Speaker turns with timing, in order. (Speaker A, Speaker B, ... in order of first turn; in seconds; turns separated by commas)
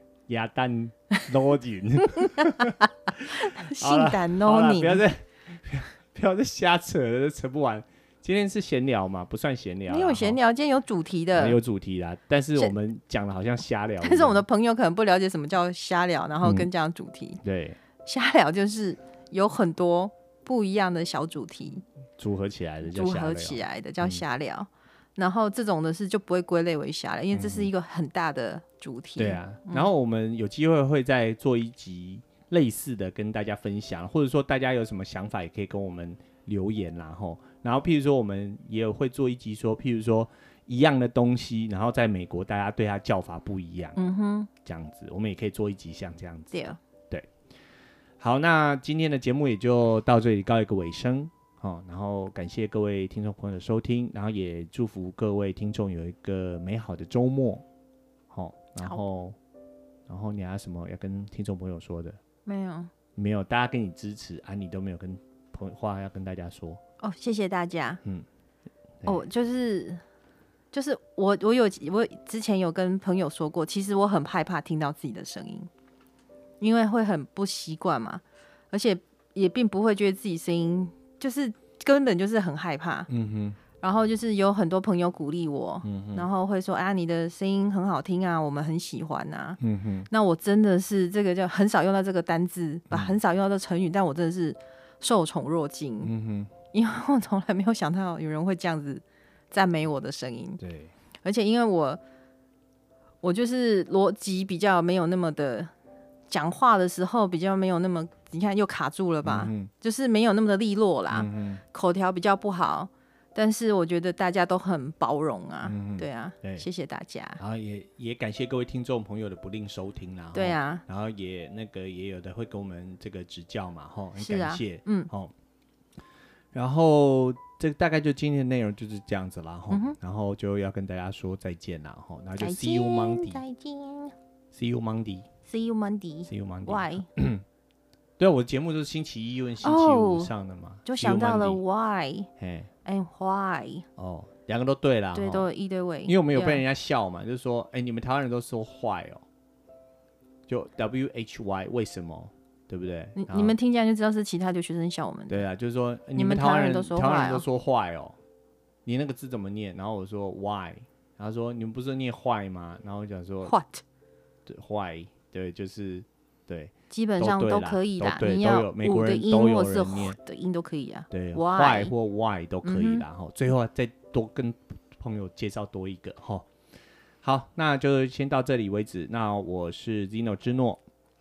Speaker A: 0.3-10.4, Speaker B: 2.0-5.0, Speaker B: 9.9-11.6, Speaker A: 11.3-14.4, Speaker B: 14.0-17.4, Speaker A: 16.4-16.7, Speaker A: 17.4-17.8, Speaker B: 18.0-21.8, Speaker A: 22.2-24.2, Speaker B: 22.8-29.9, Speaker A: 27.3-27.7, Speaker A: 29.2-44.0, Speaker B: 44.0-44.5, Speaker A: 44.6-47.3, Speaker B: 46.5-46.8, Speaker A: 48.2-57.6, Speaker A: 58.3-59.4, Speaker A: 60.1-62.2, Speaker B: 62.5-62.9, Speaker A: 63.1-66.8, Speaker B: 67.0-68.0, Speaker B: 69.0-70.0, Speaker B: 70.7-75.7, Speaker B: 76.6-83.1, Speaker A: 83.1-83.6, Speaker B: 83.8-89.6, Speaker A: 85.8-86.3, Speaker A: 89.6-90.1, Speaker B: 90.1-96.1, Speaker A: 92.9-93.2, Speaker A: 96.0-96.5, Speaker B: 96.7-100.6, Speaker A: 100.6-100.9, Speaker B: 101.2-102.0, Speaker B: 103.2-105.7, Speaker B: 106.3-117.4, Speaker A: 109.2-109.7, Speaker A: 111.1-111.6, Speaker A: 115.7-116.7, Speaker A: 117.4-125.3, Speaker B: 120.3-120.8, Speaker B: 124.2-125.1, Speaker A: 126.5-133.4, Speaker B: 129.7-129.9, Speaker B: 132.4-134.1, Speaker A: 134.5-135.3, Speaker B: 135.4-137.0, Speaker A: 136.3-137.4, Speaker A: 138.2-141.6, Speaker B: 139.6-140.3, Speaker B: 140.8-142.3, Speaker A: 142.4-142.7, Speaker B: 142.8-143.8, Speaker A: 144.0-145.5, Speaker B: 145.1-146.6, Speaker A: 146.1-149.2, Speaker A: 150.5-153.6, Speaker B: 153.2-155.4, Speaker A: 155.3-158.2, Speaker B: 156.2-157.4, Speaker A: 158.8-163.5, Speaker B: 163.4-163.8, Speaker A: 164.4-170.2, Speaker B: 166.9-171.9, Speaker A: 171.1-176.5, Speaker B: 172.6-173.0, Speaker A: 177.2-180.8